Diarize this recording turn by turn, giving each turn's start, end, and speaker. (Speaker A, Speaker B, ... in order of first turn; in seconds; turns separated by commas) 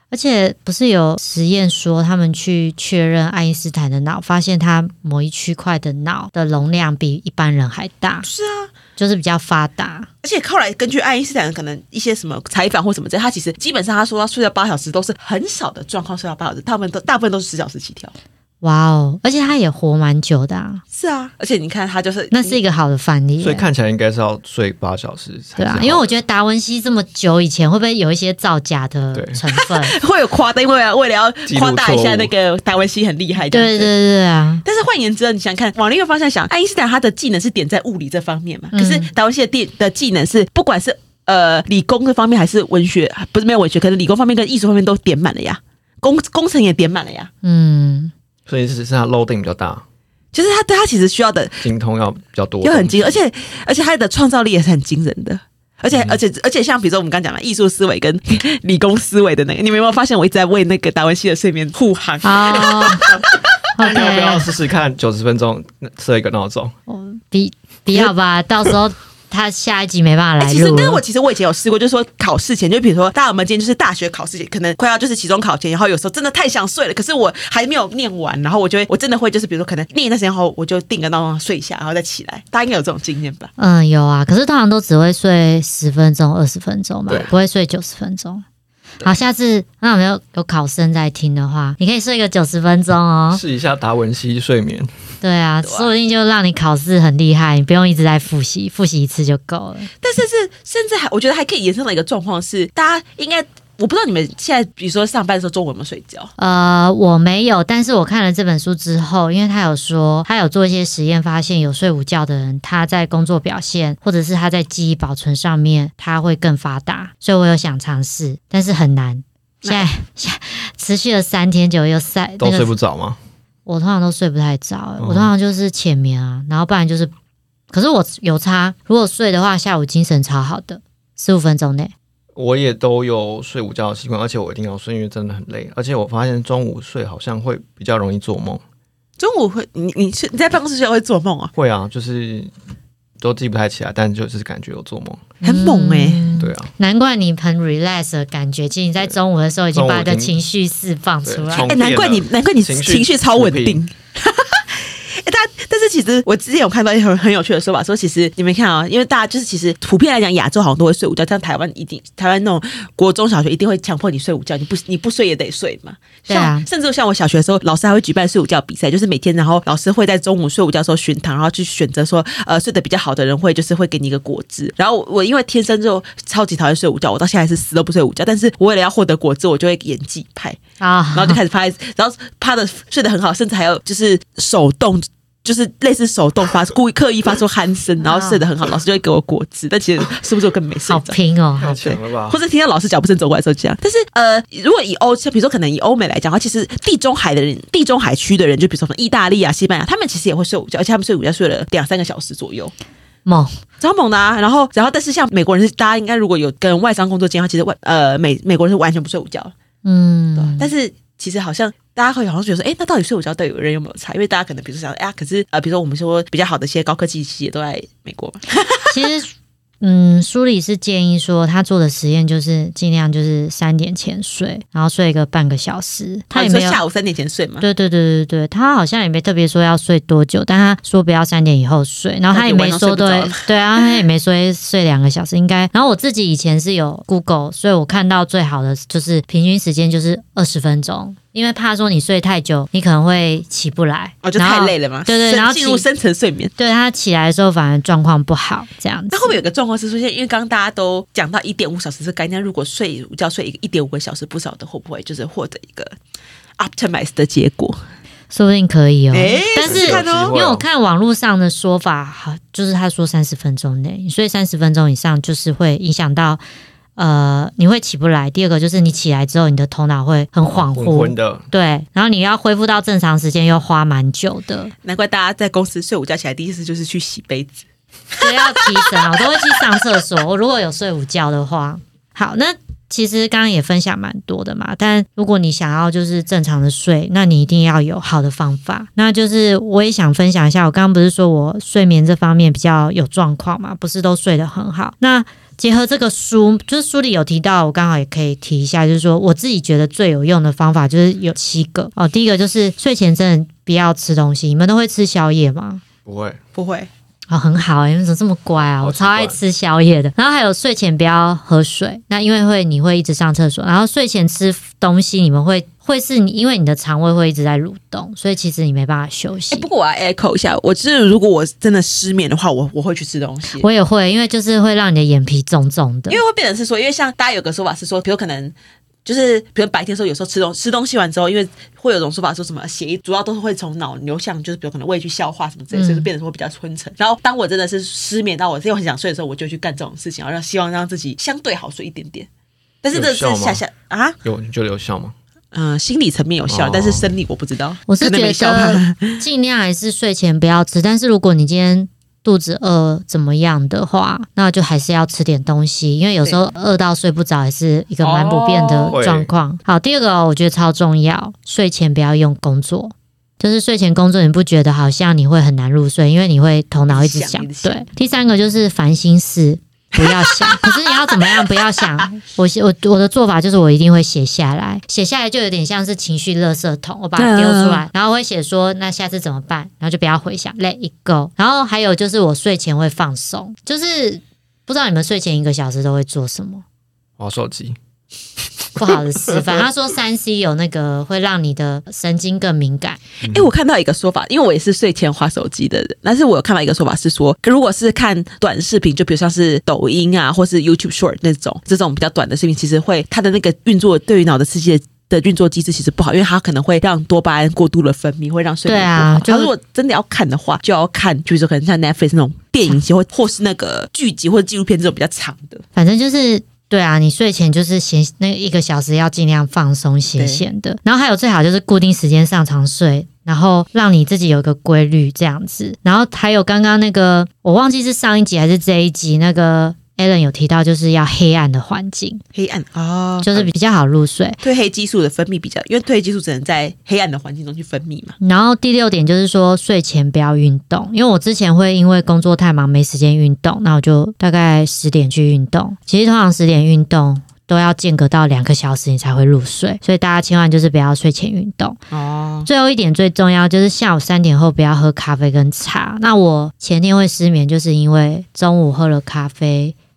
Speaker A: 0.1-8.3, Speaker B: 8.2-8.7, Speaker A: 9.0-10.1, Speaker B: 10.2-18.1, Speaker A: 18.6-20.8, Speaker B: 20.9-22.6, Speaker A: 22.3-23.7, Speaker C: 23.4-26.1, Speaker A: 25.6-30.0, Speaker C: 29.1-29.4, Speaker B: 29.6-33.9, Speaker C: 31.5-32.3, Speaker A: 33.5-34.6, Speaker B: 34.6-47.3, Speaker A: 38.7-39.1, Speaker A: 47.4-48.1, Speaker C: 48.5-49.8, Speaker B: 50.3-51.6, Speaker C: 51.6-53.2, Speaker B: 52.6-63.4, Speaker C: 55.9-56.2, Speaker A: 62.2-63.1, Speaker A: 63.8-64.5, Speaker C: 63.8-66.7, Speaker A: 66.9-71.0, Speaker B: 70.4-83.5, Speaker A: 83.6-88.4, Speaker A: 89.0-93.4, Speaker C: 93.3-94.9, Speaker A: 95.2-99.9, Speaker B: 95.6-95.9, Speaker B: 100.0-106.3, Speaker A: 106.4-122.7, Speaker C: 122.4-123.2, Speaker A: 123.7-127.1, Speaker C: 125.0-125.3, Speaker A: 127.7-131.9, Speaker C: 132.4-138.6, Speaker B: 139.2-141.5, Speaker C: 141.6-142.5, Speaker C: 143.2-145.3, Speaker A: 145.4-151.7, Speaker B: 145.4-146.3, Speaker C: 146.4-146.7, Speaker C: 149.7-150.4, Speaker C: 151.2-153.8, Speaker B: 151.5-180.6, Speaker A: 166.3-166.7, Speaker A: 180.8-181.4, Speaker B: 181.1-202.7, Speaker A: 188.0-188.4, Speaker A: 190.9-191.8, Speaker C: 191.6-192.4, Speaker A: 203.3-203.6, Speaker B: 203.8-209.5, Speaker A: 209.8-210.7, Speaker B: 210.4-219.0, Speaker A: 218.9-226.8, Speaker B: 226.3-227.7, Speaker A: 227.6-245.8, Speaker B: 232.3-234.0, Speaker B: 244.2-246.5, Speaker A: 246.6-249.4, Speaker B: 249.1-255.9, Speaker B: 256.6-257.8, Speaker A: 258.3-266.4, Speaker B: 259.1-260.4, Speaker C: 259.6-260.6, Speaker A: 267.0-274.7, Speaker C: 270.5-271.5, Speaker B: 274.8-279.6, Speaker A: 278.2-305.8, Speaker C: 306.1-306.4, Speaker B: 306.6-306.9, Speaker A: 307.3-319.7, Speaker C: 308.8-309.4, Speaker B: 319.5-323.7, Speaker A: 323.6-326.2, Speaker B: 326.1-328.5, Speaker B: 329.1-342.3, Speaker A: 335.7-336.1, Speaker B: 342.8-344.2, Speaker C: 342.9-343.6, Speaker C: 344.2-345.1, Speaker B: 345.5-349.2, Speaker C: 346.5-347.1, Speaker A: 347.9-386.6, Speaker B: 358.0-359.0, Speaker C: 358.9-359.3, Speaker B: 366.9-367.9, Speaker B: 369.9-372.0, Speaker B: 377.2-377.8, Speaker C: 387.2-387.8, Speaker A: 388.8-393.0, Speaker C: 388.8-389.4, Speaker B: 393.2-415.6, Speaker A: 408.7-409.5, Speaker A: 415.8-432.2, Speaker B: 420.2-420.4, Speaker B: 432.4-433.5, Speaker A: 433.2-434.4, Speaker B: 434.4-438.2, Speaker A: 438.2-451.8, Speaker B: 451.9-452.5, Speaker A: 452.5-459.8